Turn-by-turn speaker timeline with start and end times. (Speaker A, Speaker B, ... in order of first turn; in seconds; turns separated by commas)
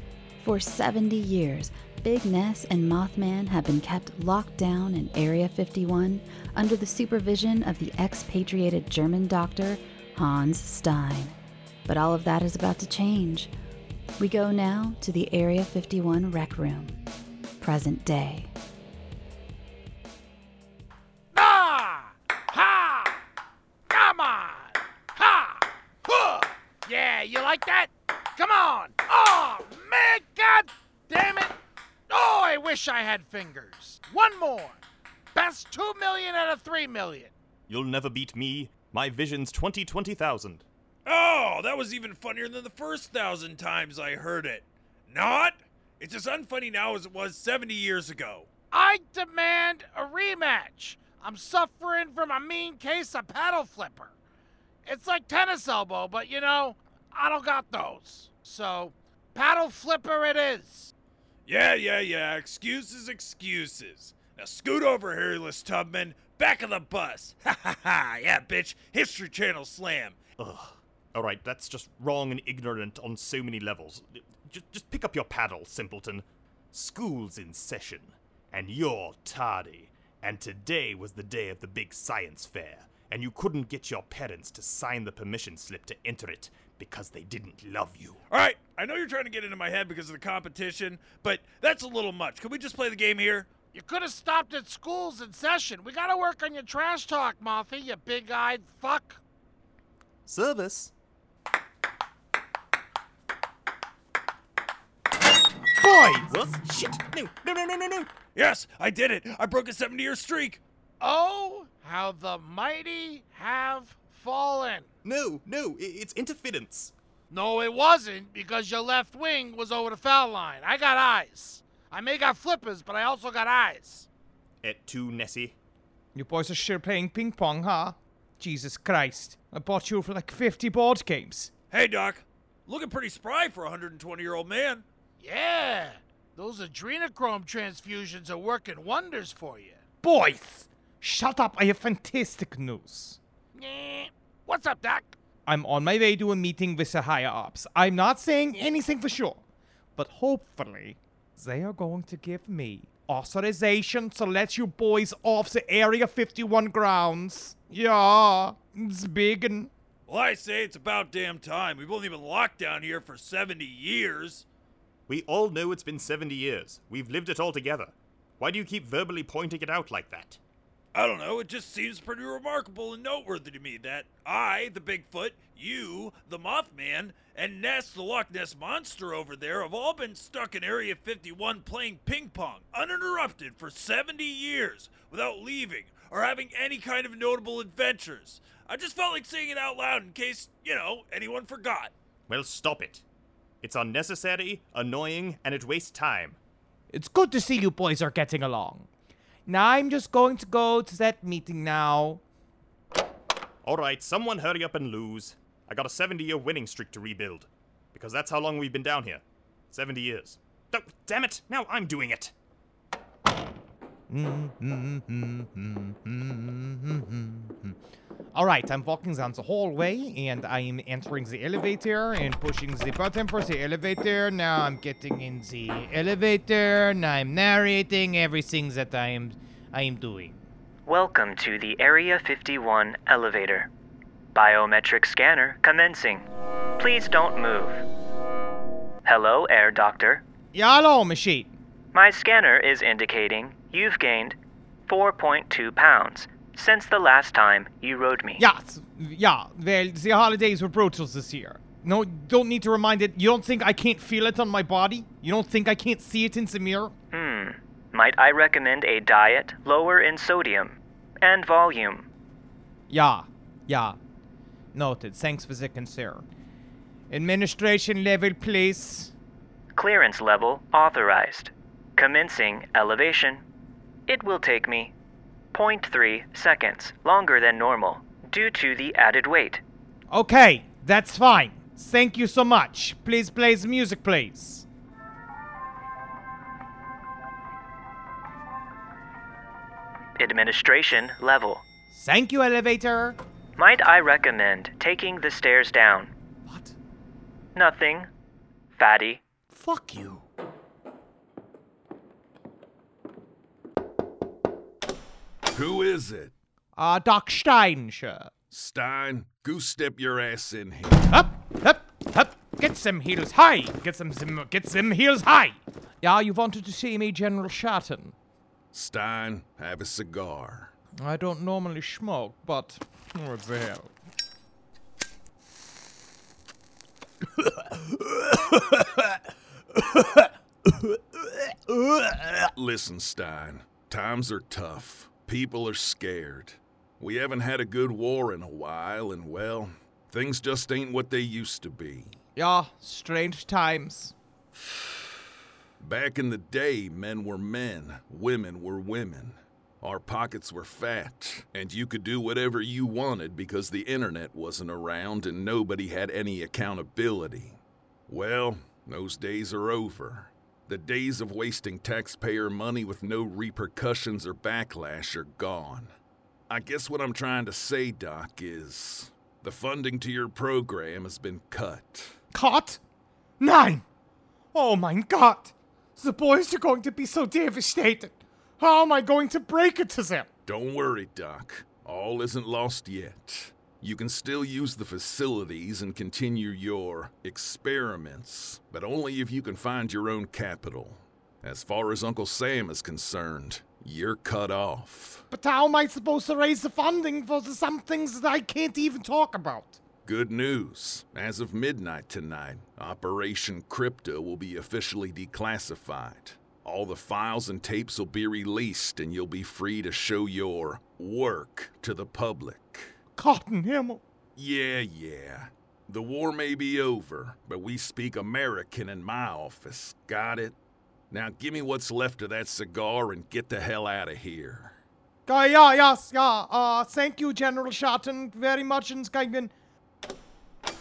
Speaker A: 0.4-11.3, Speaker A: 11.9-13.5, Speaker A: 14.2-17.0, Speaker A: 17.6-18.5, Speaker B: 21.3-23.2, Speaker B: 23.9-31.6, Speaker B: 32.1-34.8, Speaker B: 35.3-37.3, Speaker C: 37.7-40.6, Speaker D: 41.0-48.5, Speaker B: 48.7-54.1, Speaker B: 54.8-60.9, Speaker D: 61.5-70.2, Speaker C: 70.4-88.2, Speaker D: 88.3-93.5, Speaker B: 93.7-99.2, Speaker C: 100.3-100.9, Speaker E: 105.8-106.3, Speaker C: 106.2-108.2, Speaker D: 108.3-110.6, Speaker B: 111.0-114.9, Speaker C: 115.0-116.9, Speaker B: 117.3-124.1, Speaker C: 124.6-125.5, Speaker E: 126.1-131.5, Speaker D: 131.7-134.8, Speaker B: 135.2-139.8, Speaker E: 140.0-143.2, Speaker B: 143.5-145.2, Speaker E: 145.5-149.4, Speaker E: 149.9-159.7, Speaker D: 160.1-164.4, Speaker C: 165.1-170.4, Speaker D: 170.9-191.9, Speaker C: 192.3-193.0, Speaker C: 193.6-196.4, Speaker E: 196.9-198.9, Speaker E: 199.4-202.2, Speaker C: 203.6-212.3, Speaker E: 214.1-217.8, Speaker E: 218.3-230.4, Speaker F: 230.8-233.7, Speaker F: 234.3-236.3, Speaker F: 236.8-237.8, Speaker F: 239.0-240.2, Speaker E: 240.5-241.5, Speaker F: 241.9-244.3, Speaker F: 244.9-248.4, Speaker E: 248.4-256.9, Speaker F: 257.1-262.1, Speaker E: 262.9-264.0, Speaker E: 264.7-266.2, Speaker E: 267.1-269.1, Speaker F: 269.8-273.4, Speaker F: 274.1-274.9, Speaker F: 275.5-279.6, Speaker E: 280.1-284.6, Speaker F: 290.2-291.6, Speaker E: 291.9-293.2, Speaker F: 293.6-296.1, Speaker E: 296.5-296.7, Speaker F: 297.6-298.1, Speaker F: 298.8-299.2, Speaker E: 299.5-300.2, Speaker G: 305.5-306.3, Speaker E: 306.8-308.3, Speaker G: 308.5-311.1, Speaker E: 311.1-318.1, Speaker G: 318.7-320.7, Speaker E: 321.0-323.9, Speaker E: 327.4-328.8, Speaker E: 331.7-332.3, Speaker G: 332.6-342.2, Speaker E: 342.4-344.1, Speaker G: 345.8-365.9, Speaker G: 366.5-372.2, Speaker E: 372.3-372.8, Speaker E: 373.4-373.8, Speaker E: 374.5-380.3, Speaker G: 380.5-395.2, Speaker E: 395.3-399.8, Speaker G: 400.1-412.9, Speaker E: 413.2-414.0, Speaker G: 414.4-420.6, Speaker G: 421.1-424.8, Speaker E: 425.3-429.5